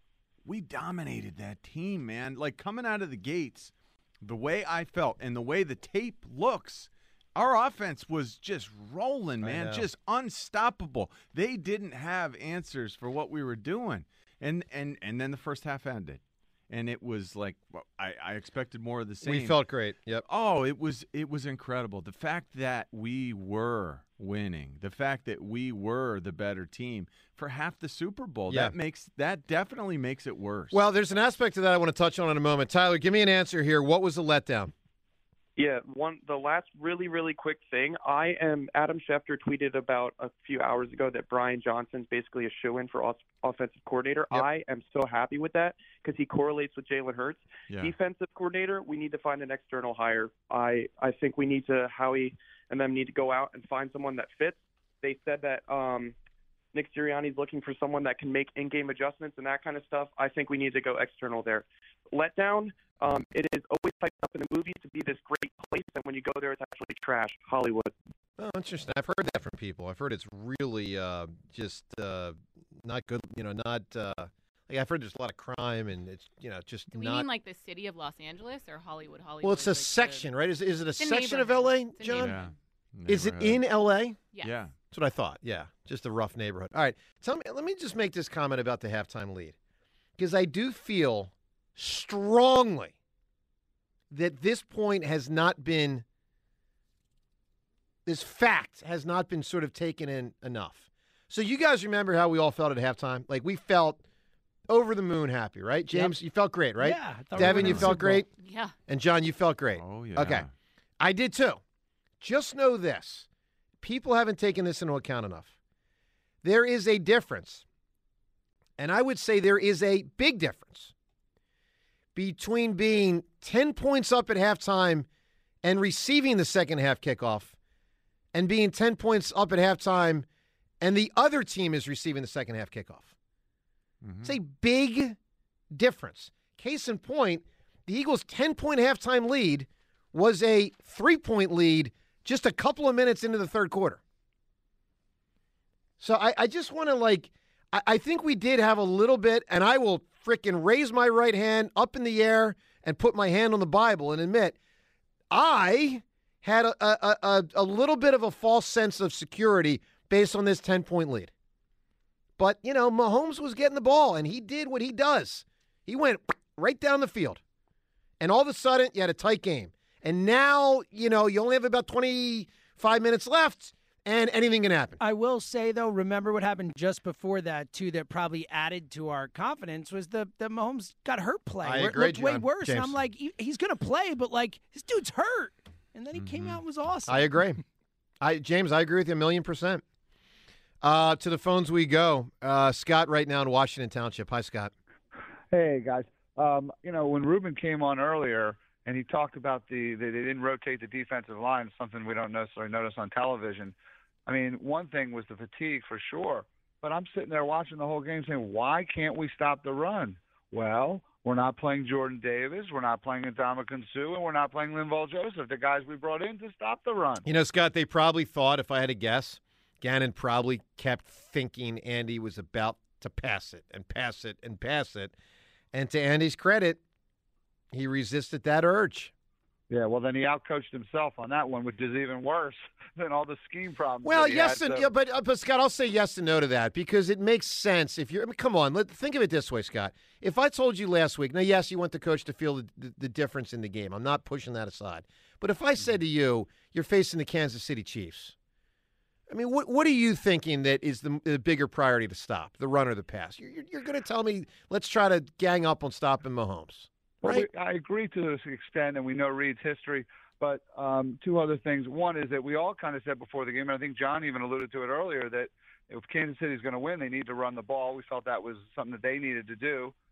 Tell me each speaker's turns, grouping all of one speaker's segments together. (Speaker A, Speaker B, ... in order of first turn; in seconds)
Speaker A: 0.5-19.6, 20.2-30.8, 82.2-83.6, 84.4-84.7, 107.4-107.9, 109.8-110.5, 134.0-134.4, 186.2-186.6
Speaker B: 9.4-9.9, 19.2-20.2, 30.7-34.7, 68.4-77.2, 79.4-82.4, 83.1-84.2, 84.9-89.6, 90.2-92.9, 94.1-96.0, 98.1-104.0, 104.7-108.3, 108.9-110.5, 111.0-111.6, 112.2-113.3, 113.8-115.5, 116.4-117.6, 118.8-120.9, 122.2-125.1, 125.6-127.6, 128.3-130.3, 130.8-133.1, 134.2-135.2, 135.7-144.0, 146.0-154.6, 155.3-161.3, 162.4-167.4, 168.2-175.0, 181.6-183.0, 187.1-187.6, 188.2-189.8, 190.8-194.7, 217.2-225.1, 225.7-226.8, 227.7-229.1, 234.0-248.3, 249.3-257.5
Speaker C: 35.6-56.1, 56.7-67.9
Speaker D: 76.9-80.2, 81.0-82.5, 84.3-84.7, 108.4-108.7
Speaker E: 105.9-106.2, 106.8-108.2, 175.0-187.5
Speaker F: 195.5-203.8, 204.3-217.3, 229.7-234.9, 257.2-269.9